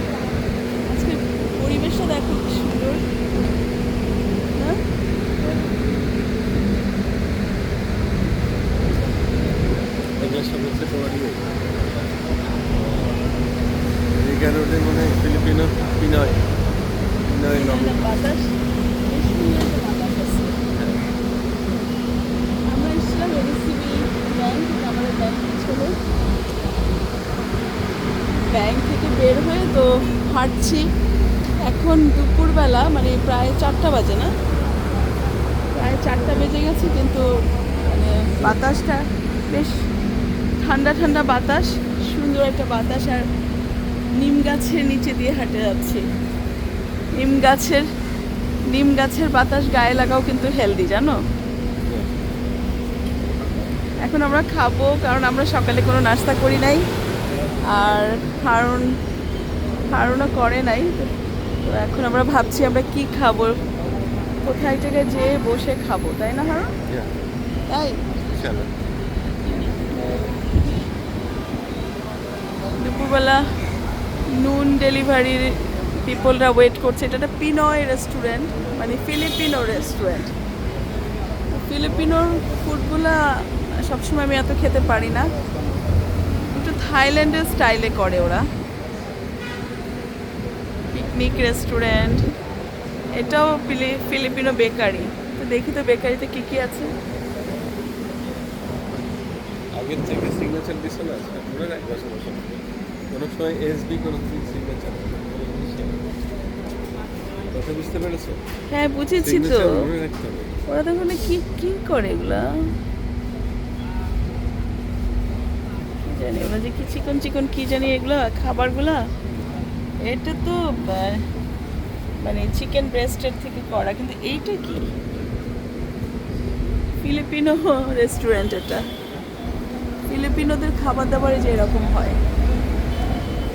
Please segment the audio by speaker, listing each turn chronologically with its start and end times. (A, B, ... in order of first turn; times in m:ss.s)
0:00.9-0:03.0 A
0:05.4-0:06.4 B
0:10.2-0:11.5 B
0:12.7-0:13.2 B
0:14.1-0:16.4 B
0:17.2-0:18.0 B
0:17.5-0:18.5 A
0:19.1-0:20.6 A
0:20.7-0:21.1 B
0:22.7-0:25.9 A
0:28.5-0:30.8 A
0:31.6-0:34.3 A
0:35.7-0:37.2 A
0:37.8-0:39.8 A
0:40.6-0:43.2 A
0:44.2-0:46.0 A
0:47.2-0:47.8 A
0:48.7-0:51.2 A
0:51.9-0:52.1 B
0:54.0-0:56.8 A
0:57.7-0:59.0 A
0:59.9-1:01.1 A
1:01.6-1:03.6 A
1:04.4-1:06.7 A
1:06.9-1:07.1 B
1:07.7-1:08.0 A
1:08.2-1:08.7 B
1:12.8-1:13.4 A
1:14.3-1:20.3 A
1:21.5-1:25.3 A
1:26.5-1:28.4 A
1:30.9-1:32.2 A
1:33.1-1:36.9 A
1:39.7-1:46.0 B
1:47.5-1:48.4 B
1:48.7-1:49.8 A
1:49.2-1:50.5 B
1:50.7-1:52.4 A
1:56.0-1:59.0 A
2:00.0-2:01.2 A
2:02.2-2:04.9 A
2:07.0-2:08.9 A
2:10.1-2:12.2 A